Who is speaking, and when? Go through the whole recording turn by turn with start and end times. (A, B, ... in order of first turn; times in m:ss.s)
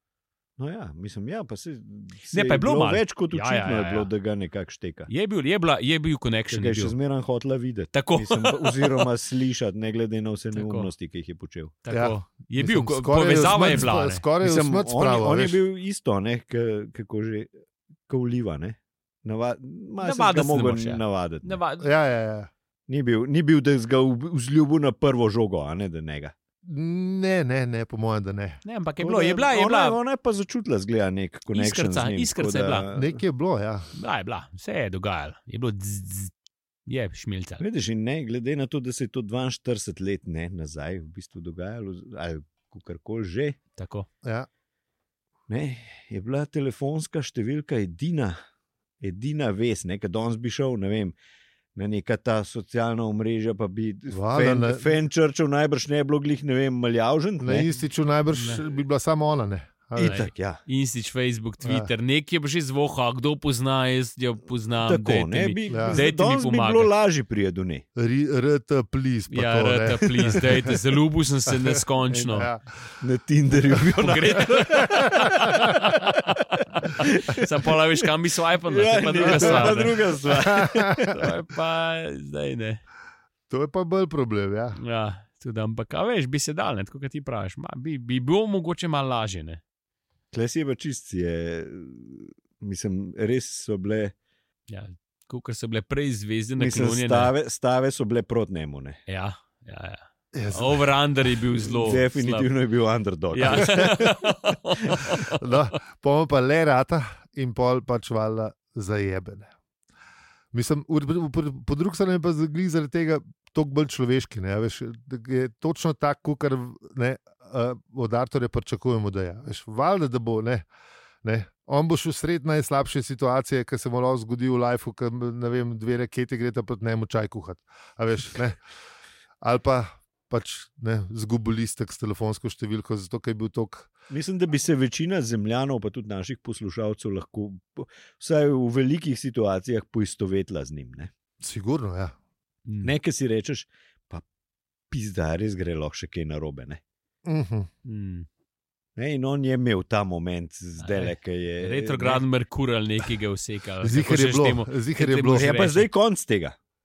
0:00.6-0:05.1 A
0:02.3-0:04.1 B
0:05.1-0:07.0 B
0:06.5-0:11.8 A
0:07.9-0:09.1 B
0:10.5-0:10.9 B
0:11.8-0:14.2 B
0:11.9-0:15.6 C
0:14.4-0:17.5 A
0:18.1-0:21.6 A
0:20.0-0:21.9 B
0:21.8-0:22.5 C
0:22.9-0:26.3 A
0:26.6-0:28.6 C
0:28.6-0:30.0 B
0:29.0-0:33.2 A
0:31.5-0:32.9 B
0:33.0-0:33.9 C
0:33.9-0:36.3 B
0:36.9-0:37.6 B
0:37.6-0:43.6 A
0:43.8-0:44.1 B
0:45.5-0:48.4 A
0:49.0-0:51.2 A
0:51.8-0:57.8 A
0:54.1-0:54.9 C
0:57.4-1:00.2 C
0:58.3-0:58.6 B
1:00.0-1:00.6 A
1:00.0-1:06.9 B
1:01.6-1:01.9 C
1:04.8-1:07.8 A
1:05.7-1:06.0 C
1:08.0-1:10.8 C
1:09.3-1:12.5 B
1:11.7-1:13.0 C
1:13.0-1:15.6 A
1:14.0-1:20.1 B
1:14.7-1:15.7 C
1:17.0-1:17.5 A
1:18.7-1:21.1 A
1:19.2-1:21.1 C
1:21.0-1:22.8 B
1:23.5-1:24.8 C
1:24.8-1:29.6 B
1:30.3-1:34.1 A
1:34.7-1:37.3 B
1:36.6-1:39.0 A
1:39.1-1:42.5 B
1:40.3-1:40.8 C
1:41.7-1:44.0 A
1:43.3-1:45.7 B
1:43.5-1:44.1 C
1:45.3-1:49.5 C
1:50.5-2:00.7 C
2:01.2-2:08.6 C
2:09.4-2:13.9 C
2:14.1-2:21.1 A
2:21.4-2:22.2 C
2:22.7-2:22.9 B
2:22.8-2:24.2 A
2:24.9-2:26.8 A
2:27.2-2:27.7 C
2:27.8-2:28.3 B
2:29.0-2:32.2 A
2:30.8-2:35.9 B
2:33.8-2:35.5 C
2:35.2-2:36.6 A